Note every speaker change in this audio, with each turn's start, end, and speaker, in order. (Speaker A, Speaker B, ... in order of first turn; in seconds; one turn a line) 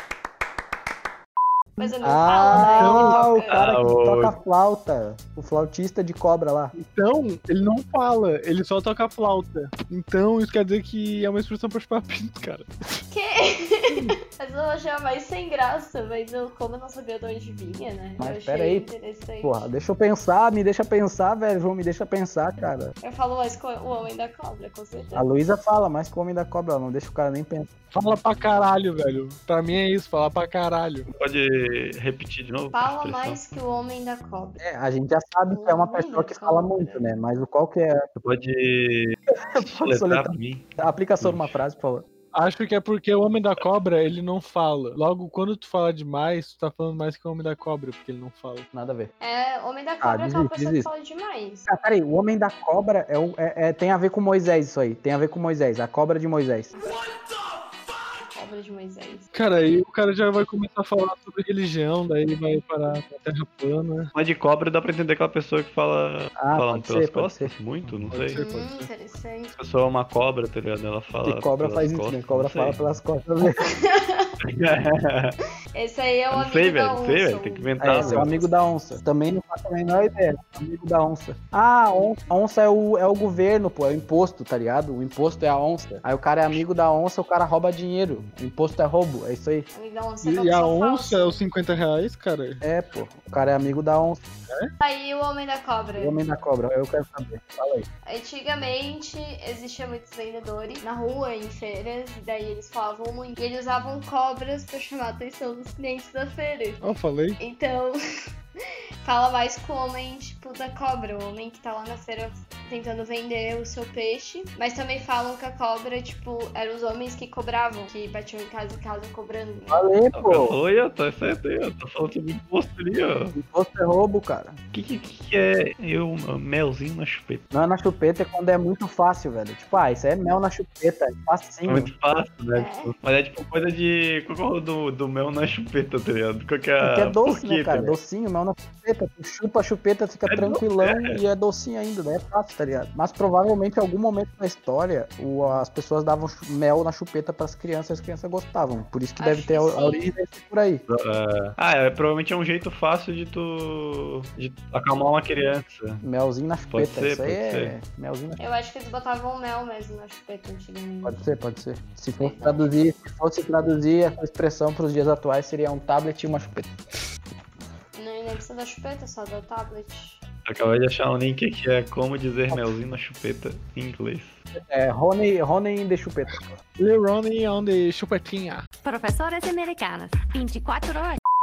Speaker A: 1.8-3.6
Speaker B: 1.8-6.7
Speaker C: 2.8-3.2
Speaker D: 3.5-4.3
Speaker C: 6.8-13.0
Speaker A: 13.1-19.7
Speaker B: 18.2-18.9
Speaker B: 19.4-22.9
Speaker A: 23.0-25.3
Speaker B: 25.1-27.7
Speaker C: 27.9-31.1
Speaker D: 31.1-33.4
Speaker A: 32.7-34.6
Speaker B: 34.6-38.0
Speaker A: 35.5-37.1
Speaker D: 38.2-41.5
Speaker B: 39.5-42.0
Speaker C: 42.3-48.7
Speaker B: 48.7-49.1
Speaker A: 49.2-51.7
Speaker B: 50.0-50.9
Speaker B: 51.7-56.7
Speaker A: 58.3-59.3
Speaker C: 59.3-64.1
Speaker D: 64.1-68.4
Speaker B: 66.4-67.5
Speaker C: 68.1-68.9
Speaker A: 68.4-69.5
Speaker D: 69.5-72.8
Speaker B: 71.2-73.6
Speaker A: 73.6-74.3
Speaker D: 74.4-75.4
Speaker A: 75.8-78.6
Speaker D: 76.3-78.3
Speaker B: 77.8-89.7
Speaker A: 89.7-91.4
Speaker C: 90.2-92.6
Speaker B: 92.6-94.2
Speaker A: 94.8-96.2
Speaker B: 96.0-97.9
Speaker A: 98.0-106.8
Speaker C: 106.8-107.4
Speaker A: 107.4-108.0
Speaker A: 109.0-119.8
Speaker B: 119.7-120.5
Speaker D: 120.1-123.4
Speaker B: 123.3-124.6
Speaker D: 124.7-127.5
Speaker B: 127.5-131.9
Speaker D: 131.7-138.0
Speaker A: 132.6-132.9
Speaker B: 136.8-150.8
Speaker D: 140.3-141.2
Speaker A: 149.2-150.1
Speaker D: 150.9-156.0
Speaker B: 156.0-158.4
Speaker D: 156.7-157.7
Speaker A: 158.4-161.2
Speaker B: 161.0-166.7
Speaker A: 162.2-162.8
Speaker A: 167.9-170.2
Speaker D: 170.5-174.4
Speaker B: 174.6-176.5
Speaker C: 176.8-178.7
Speaker E: 178.8-181.2